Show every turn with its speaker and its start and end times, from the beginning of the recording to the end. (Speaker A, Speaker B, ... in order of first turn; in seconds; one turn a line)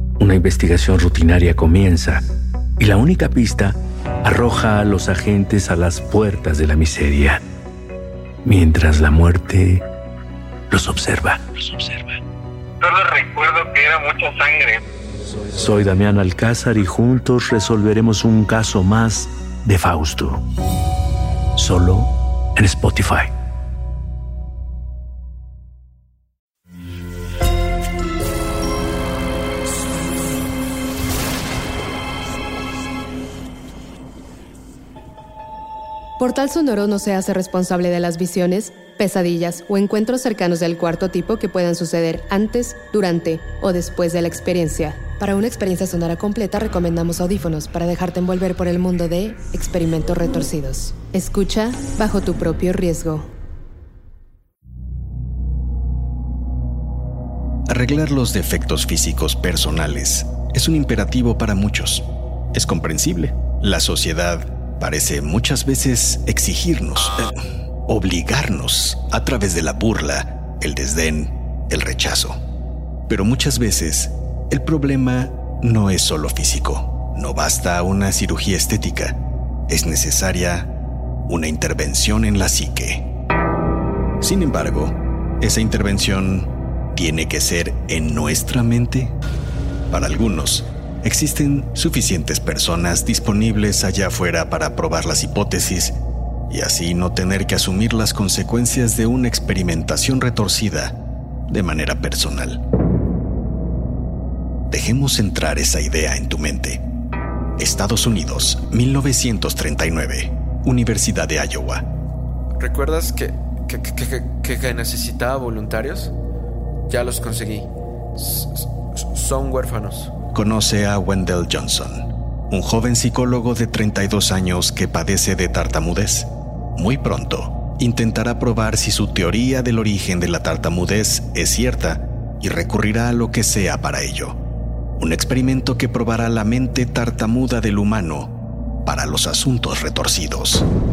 Speaker A: 0.2-2.2
Speaker A: 2.8-7.4
Speaker A: 8.4-9.8
Speaker A: 10.7-12.1
Speaker B: 12.8-14.8
Speaker A: 15.5-20.4
Speaker A: 21.6-23.3
Speaker C: 36.2-53.3
Speaker D: 57.7-67.3
Speaker D: 67.9-72.4
Speaker D: 73.1-80.7
Speaker D: 81.2-83.1
Speaker D: 84.2-89.1
Speaker D: 89.9-96.0
Speaker D: 96.5-101.0
Speaker D: 101.5-102.6
Speaker D: 104.7-106.8
Speaker D: 107.6-111.8
Speaker E: 112.6-116.1
Speaker E: 116.9-120.1
Speaker D: 120.3-134.4
Speaker D: 135.0-138.3
Speaker D: 138.8-140.7